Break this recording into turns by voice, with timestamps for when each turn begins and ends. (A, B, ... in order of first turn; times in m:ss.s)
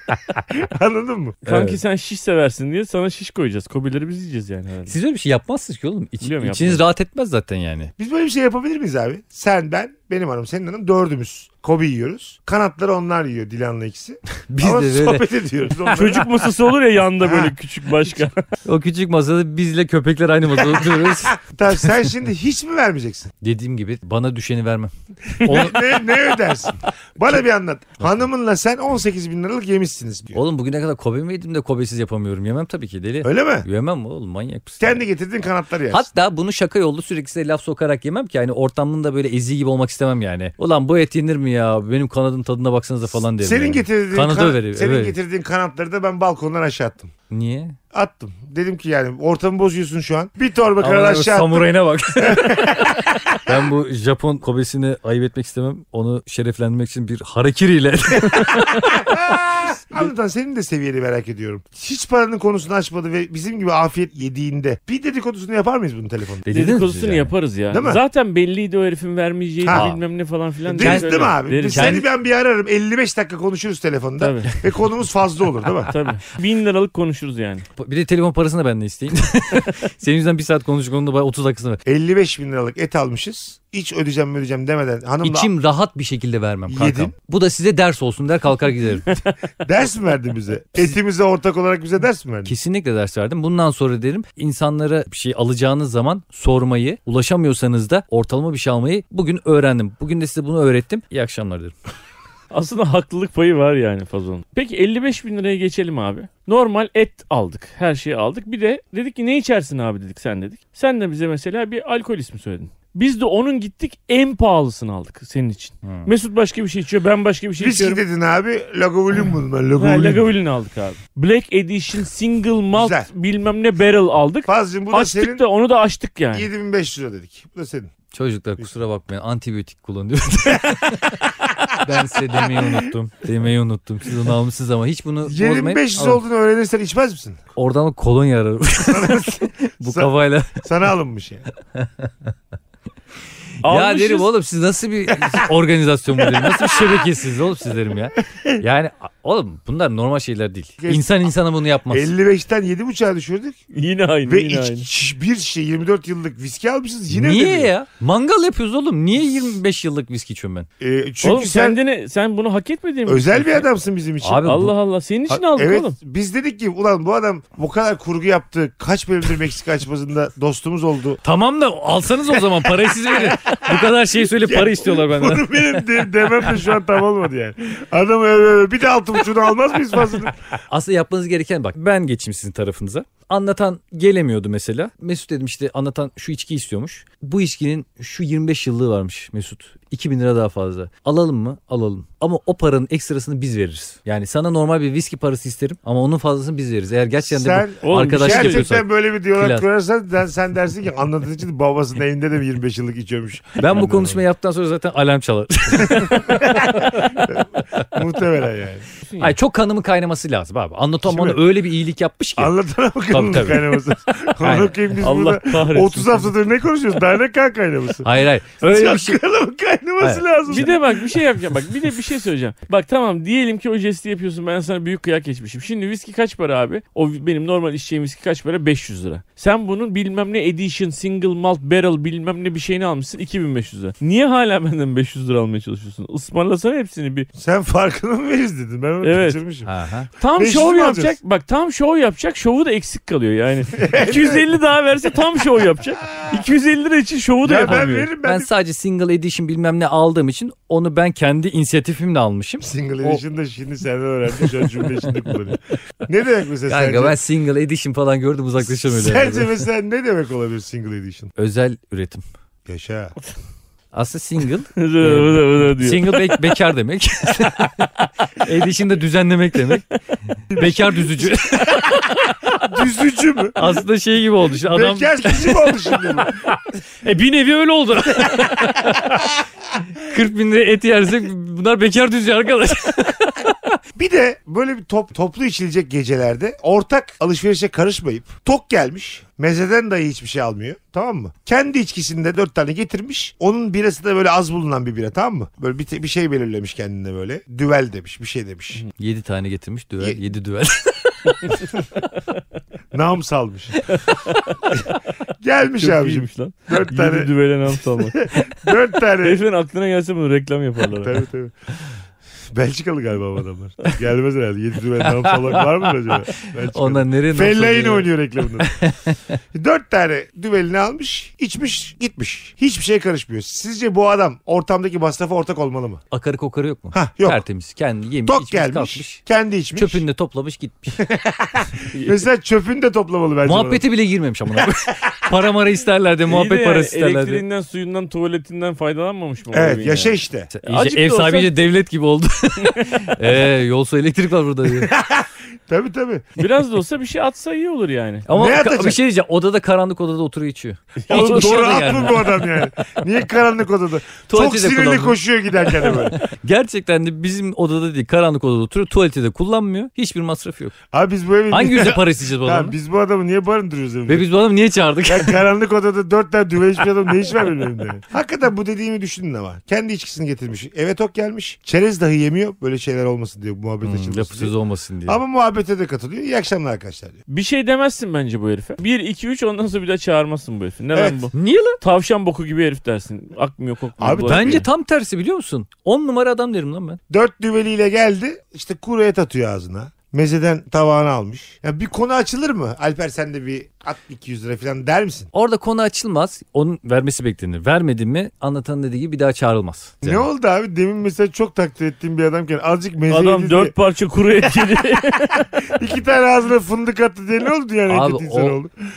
0:00.4-0:01.4 A
0:01.4-0:04.9 B
0:01.4-0:01.8 C
0:04.9-0:07.9 C
0:06.2-0:06.8 B
0:08.0-0:16.5 A
0:14.5-0:15.2 C
0:15.8-0:18.4 B
0:17.2-0:17.5 A
0:18.6-0:21.8 C
0:20.8-0:23.3 A
0:23.4-0:26.0 C
0:25.3-0:30.4 A
0:25.4-0:25.7 B
0:30.3-0:35.0 C
0:33.2-0:33.7 A
0:34.8-0:36.0 A
0:35.9-0:45.2 C
0:43.4-0:47.1 A
0:47.3-0:47.8 C
0:47.9-0:51.7 A
0:50.8-0:59.4 C
0:52.2-0:53.5 A
0:58.4-1:06.4 A
1:06.4-1:07.3 C
1:06.5-1:12.0 B
1:07.7-1:08.0 A
1:09.6-1:09.9 A
1:09.7-1:10.0 C
1:10.7-1:15.9 A
1:10.8-1:12.0 C
1:14.2-1:14.6 B
1:15.9-1:17.6 B
1:17.8-1:21.8 C
1:21.8-1:25.5 A
1:25.2-1:29.0 C
1:26.7-1:27.1 A
1:29.1-1:29.3 B
1:29.6-1:32.5 A
1:32.4-1:41.7 C
1:42.5-1:58.0 B
1:57.6-2:00.3 A
1:59.8-2:06.5 B
2:02.7-2:03.1 A
2:04.5-2:05.4 A
2:06.3-2:07.9 A
2:08.1-2:16.2 C
2:12.5-2:12.8 A
2:15.2-2:17.4 A
2:17.6-2:20.6 C
2:18.9-2:20.1 A
2:20.6-2:21.4 A
2:21.7-2:22.3 C
2:23.6-2:24.3 B
2:23.6-2:32.1 C
2:26.3-2:26.9 A
2:30.8-2:31.2 A
2:31.9-2:33.6 A
2:33.7-2:34.9 B
2:34.3-2:37.7 A
2:37.1-2:40.7 C
2:40.8-2:41.8 A
2:41.2-2:43.7 B
2:43.1-2:44.4 A
2:44.2-2:44.7 C
2:44.4-2:46.0 B
2:45.3-2:51.2 A
2:51.2-2:55.8 C
2:52.4-3:00.3 A
3:00.7-3:19.6 C
3:17.2-3:24.2 A
3:17.8-3:18.6 B
3:23.6-3:27.2 C
3:25.8-3:28.9 A
3:29.0-3:29.3 B
3:29.2-3:32.5 C
3:31.0-3:31.4 A
3:32.4-3:38.1 A
3:33.1-3:33.8 C
3:34.4-3:34.8 C
3:35.0-3:36.3 B
3:38.0-3:39.2 C
3:38.6-3:40.9 A
3:40.0-3:40.7 C
3:40.5-3:57.3 B
3:57.4-3:59.7 A
3:59.0-3:59.4 B
3:59.6-4:00.1 C
4:00.2-4:08.1 B
4:00.4-4:01.2 A
4:03.8-4:04.4 A
4:07.4-4:08.5 A
4:08.2-4:13.2 C
4:12.6-4:17.2 A
4:16.7-4:19.6 C
4:18.8-4:21.3 A
4:21.4-4:22.2 C
4:22.6-4:23.1 A
4:23.9-4:29.8 C
4:24.8-4:26.3 B
4:30.5-4:33.6 A
4:30.5-4:32.6 C
4:33.6-4:39.2 C
4:34.6-4:36.4 A
4:38.4-4:38.7 A
4:40.0-4:43.8 C
4:44.0-4:58.8 A
4:59.0-5:01.6 C
5:02.9-5:03.9 A
5:03.9-5:04.9 B
5:05.4-5:07.3 A
5:05.8-5:08.2 B
5:08.0-5:09.4 A
5:09.2-5:11.2 B
5:11.0-5:11.5 A
5:12.5-5:18.7 A
5:15.0-5:15.6 C
5:16.4-5:19.4 C
5:19.5-5:26.0 A
5:26.1-5:29.2 C
5:26.9-5:27.4 A
5:28.2-5:30.0 A
5:29.7-5:31.0 C
5:31.0-5:33.8 A
5:31.9-5:32.2 B
5:33.4-5:37.4 C
5:36.2-5:41.5 B
5:39.5-5:40.5 A
5:40.5-5:44.9 C
5:42.6-5:43.0 B
5:44.8-5:46.2 A
5:46.4-5:48.3 B
5:48.3-5:52.7 C
5:48.3-5:49.0 A
5:51.0-5:52.1 B
5:51.1-5:56.2 A
5:54.3-6:00.7 C
6:00.9-6:04.3 A
6:01.5-6:02.8 C
6:04.1-6:05.4 C
6:05.0-6:14.5 A
6:13.8-6:15.2 C
6:15.0-6:17.2 A
6:17.3-6:24.6 B
6:21.3-6:21.8 C
6:24.0-6:24.6 A
6:24.2-6:27.0 C
6:27.1-6:35.3 A
6:35.3-6:40.3 C
6:40.0-6:43.7 A
6:43.1-6:45.5 B
6:45.6-6:48.7 A
6:47.9-6:48.6 C